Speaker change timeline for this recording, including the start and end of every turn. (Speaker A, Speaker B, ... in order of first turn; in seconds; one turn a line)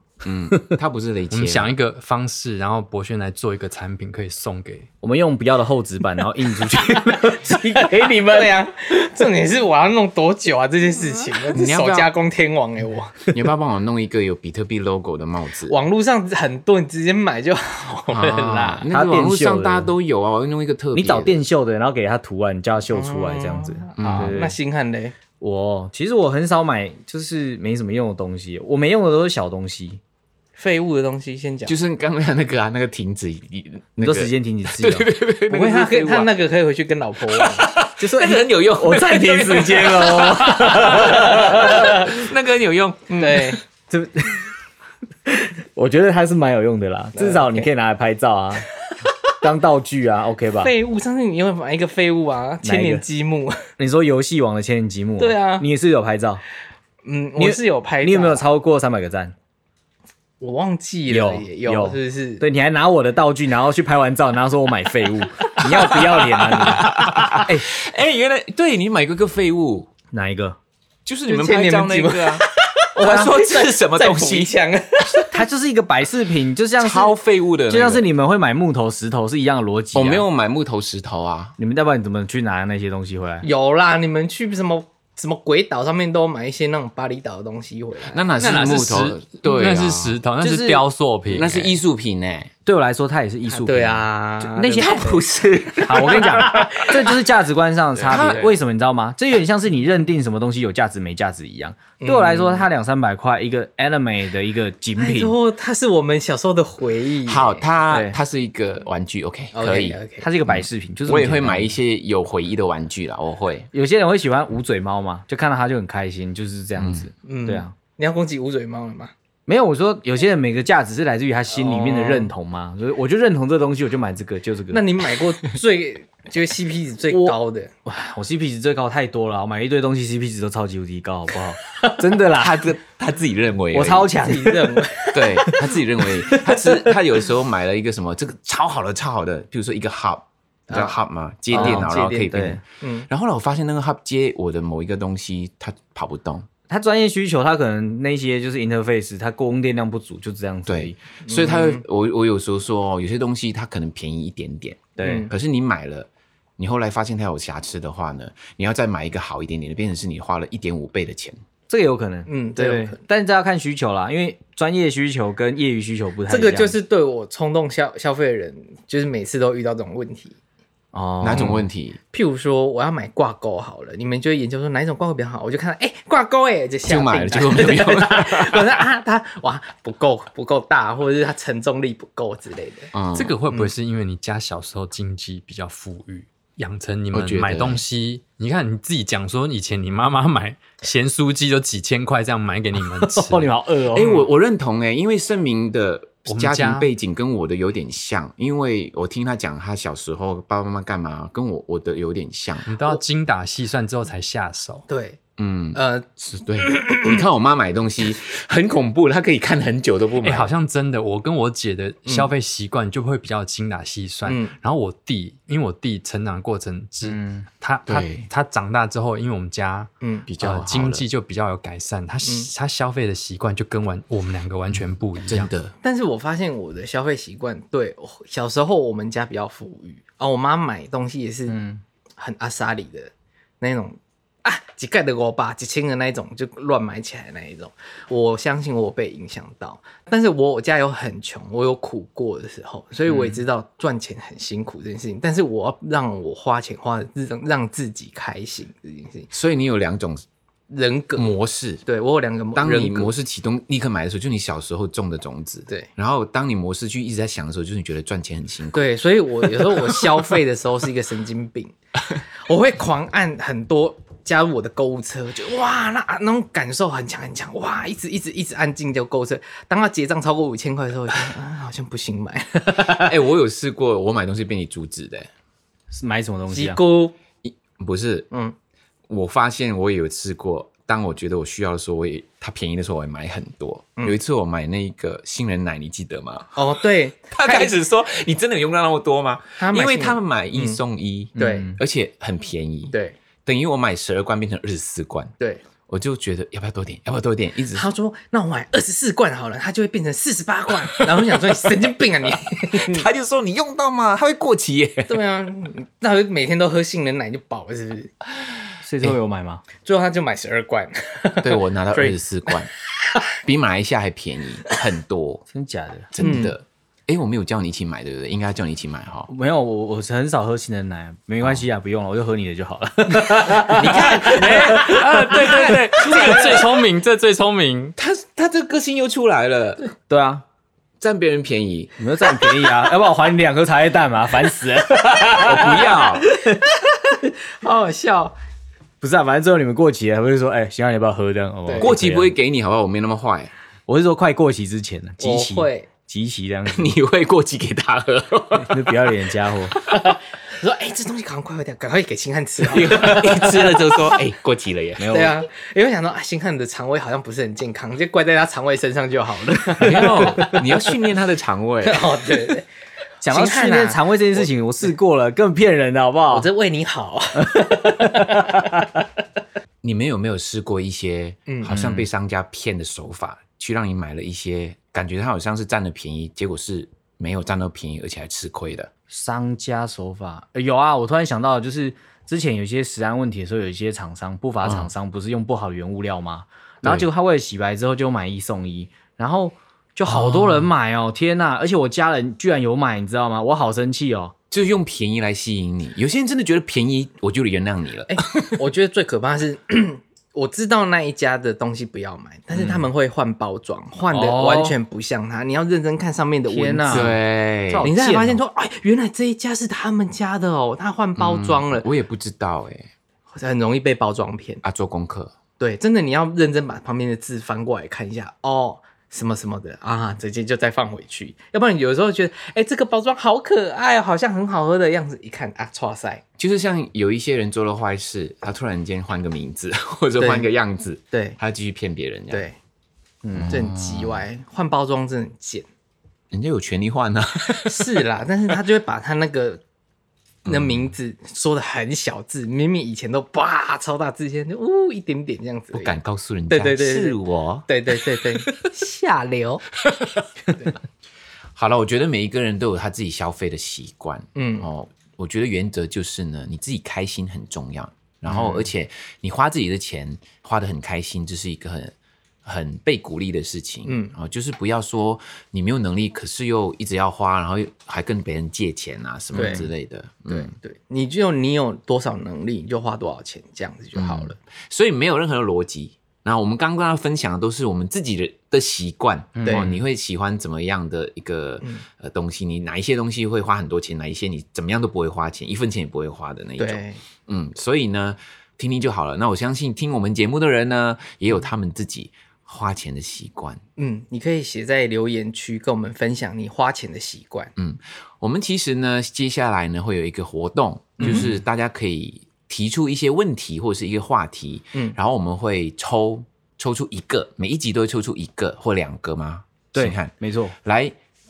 Speaker A: 0.2-1.7
Speaker B: 1.3-4.9
Speaker C: 5.0-8.6
Speaker D: 7.2-13.3
Speaker A: 11.5-12.1
Speaker A: 13.3-15.8
Speaker D: 15.7-18.9
Speaker A: 18.1-21.4
Speaker C: 18.9-19.9
Speaker C: 20.9-24.6
Speaker D: 22.9-25.1
Speaker A: 24.0-24.3
Speaker C: 25.4-30.0
Speaker D: 30.6-31.7
Speaker A: 31.6-36.3
Speaker C: 34.0-35.1
Speaker D: 35.5-37.7
Speaker A: 37.4-43.6
Speaker C: 38.0-42.1
Speaker D: 41.0-41.8
Speaker D: 43.1-43.6
Speaker C: 43.9-44.5
Speaker C: 45.2-48.7
Speaker D: 47.1-47.7
Speaker C: 49.3-50.7
Speaker D: 50.6-53.6
Speaker C: 52.6-53.0
Speaker C: 53.8-56.4
Speaker D: 55.2-55.7
Speaker D: 57.0-58.4
Speaker C: 57.4-59.3
Speaker D: 60.4-62.5
Speaker C: 61.1-67.7
Speaker A: 65.6-69.9
Speaker C: 70.1-70.6
Speaker A: 71.0-72.5
Speaker D: 71.3-75.3
Speaker A: 73.0-74.5
Speaker C: 75.3-80.3
Speaker A: 76.8-78.1
Speaker A: 79.9-81.5
Speaker C: 81.6-83.5
Speaker D: 83.4-88.3
Speaker A: 88.1-90.7
Speaker B: 88.4-91.7
Speaker C: 90.4-90.8
Speaker A: 91.3-92.5
Speaker C: 92.7-95.2
Speaker D: 93.5-95.1
Speaker A: 94.7-96.9
Speaker C: 95.8-105.4
Speaker D: 95.9-97.0
Speaker B: 98.0-98.4
Speaker A: 98.1-98.5
Speaker D: 102.0-102.7
Speaker D: 105.0-107.7
Speaker A: 107.2-113.7
Speaker C: 107.8-108.2
Speaker D: 109.5-110.2
Speaker C: 110.2-111.8
Speaker C: 113.7-117.7
Speaker A: 116.8-117.1
Speaker D: 117.2-119.1
Speaker C: 119.5-125.2
Speaker D: 121.5-122.3
Speaker D: 124.7-127.7
Speaker C: 127.1-132.7
Speaker A: 132.3-134.1
Speaker C: 133.7-135.7
Speaker D: 134.2-135.6
Speaker A: 135.1-146.5
Speaker C: 136.3-136.9
Speaker D: 140.7-141.0
Speaker C: 141.5-142.6
Speaker D: 141.5-143.1
Speaker C: 146.7-151.0
Speaker A: 150.7-161.4
Speaker D: 151.2-151.8
Speaker C: 155.0-155.3
Speaker D: 155.0-155.3
Speaker C: 161.7-166.8
Speaker D: 162.2-163.0
Speaker D: 166.3-170.4
Speaker C: 170.9-171.7
Speaker A: 171.2-172.0
Speaker D: 172.1-182.9
Speaker A: 176.8-178.8
Speaker A: 182.9-183.3
Speaker B: 183.1-193.5
Speaker A: 187.1-187.8
Speaker C: 192.8-194.2
Speaker A: 193.9-202.7
Speaker B: 196.2-196.9
Speaker B: 202.7-204.8
Speaker D: 204.9-205.2
Speaker A: 205.4-205.8
Speaker D: 205.7-207.2
Speaker A: 206.4-210.5
Speaker B: 210.2-225.5
Speaker D: 212.1-212.3
Speaker D: 214.2-214.5
Speaker C: 217.0-217.5
Speaker A: 217.9-218.3
Speaker D: 220.0-220.3
Speaker A: 220.3-221.0
Speaker D: 222.2-222.5
Speaker A: 225.3-225.7
Speaker D: 225.8-231.6
Speaker C: 231.5-231.8
Speaker D: 232.2-249.3
Speaker A: 249.3-250.2
Speaker D: 250.7-251.3
Speaker A: 251.2-251.8
Speaker D: 251.8-253.1
Speaker A: 252.5-258.9
Speaker D: 258.7-261.7
Speaker A: 259.4-260.2
Speaker D: 262.4-273.1
Speaker A: 272.7-275.3
Speaker C: 275.9-276.8
Speaker D: 276.5-277.1
Speaker A: 277.4-278.3
Speaker A: 279.1-286.7
Speaker D: 286.5-287.7
Speaker A: 287.3-295.3
Speaker D: 289.6-290.8
Speaker C: 291.4-291.7
Speaker D: 291.4-291.8
Speaker D: 292.9-293.2
Speaker A: 295.9-297.9
Speaker D: 297.7-303.1
Speaker A: 300.9-301.5
Speaker A: 302.6-305.2
Speaker D: 305.1-308.1
Speaker C: 308.8-309.6
Speaker D: 309.8-312.2
Speaker A: 311.4-312.7
Speaker A: 313.3-315.4
Speaker C: 315.5-316.4
Speaker A: 316.1-319.3
Speaker D: 316.2-316.5
Speaker C: 319.3-326.3
Speaker A: 323.6-326.7
Speaker B: 324.0-327.9
Speaker A: 328.0-329.9
Speaker C: 330.1-330.4
Speaker A: 331.0-331.9
Speaker C: 332.0-336.6
Speaker A: 335.3-336.3
Speaker D: 335.9-338.4
Speaker C: 339.0-342.3
Speaker D: 341.7-341.9
Speaker A: 341.8-343.5
Speaker C: 343.9-346.9
Speaker D: 345.2-345.9
Speaker A: 346.7-348.9
Speaker C: 348.5-349.8
Speaker D: 349.9-353.9
Speaker A: 352.6-355.1
Speaker C: 355.0-355.4
Speaker D: 355.1-360.6
Speaker A: 359.8-362.2
Speaker C: 359.9-360.6
Speaker D: 361.8-362.7
Speaker C: 363.2-366.5
Speaker D: 363.2-364.5
Speaker D: 366.3-368.5
Speaker C: 367.3-368.9
Speaker A: 369.8-378.9
Speaker D: 371.5-372.0
Speaker C: 371.7-372.1
Speaker C: 379.1-394.3
Speaker A: 384.6-384.9
Speaker A: 386.8-387.1
Speaker A: 390.1-390.7
Speaker A: 394.5-398.5
Speaker D: 398.1-407.1
Speaker A: 402.5-402.9
Speaker C: 404.1-404.8
Speaker C: 406.5-408.4
Speaker A: 406.9-407.9
Speaker D: 407.8-411.9
Speaker A: 411.1-412.9
Speaker D: 413.3-414.6
Speaker A: 414.6-415.3
Speaker D: 415.6-426.2
Speaker A: 426.4-432.5
Speaker D: 430.2-430.5
Speaker D: 431.1-431.4
Speaker D: 432.3-432.6
Speaker C: 433.2-433.7
Speaker A: 433.3-434.2
Speaker D: 433.5-435.6
Speaker A: 436.3-438.0
Speaker D: 437.5-439.6
Speaker A: 440.4-440.9
Speaker D: 440.4-445.9
Speaker A: 445.7-447.7
Speaker D: 446.5-449.6
Speaker D: 450.5-450.8
Speaker A: 451.5-461.9
Speaker D: 454.3-454.7
Speaker D: 458.3-458.7
Speaker A: 462.4-470.5
Speaker D: 463.8-464.1
Speaker C: 469.3-469.7
Speaker D: 469.3-469.7
Speaker D: 470.3-474.4
Speaker A: 473.9-493.6
Speaker C: 479.4-479.8
Speaker D: 486.6-487.0
Speaker D: 493.8-497.5
Speaker A: 497.6-510.1
Speaker D: 501.0-501.3
Speaker C: 501.0-501.4
Speaker C: 509.7-510.6
Speaker A: 510.6-510.9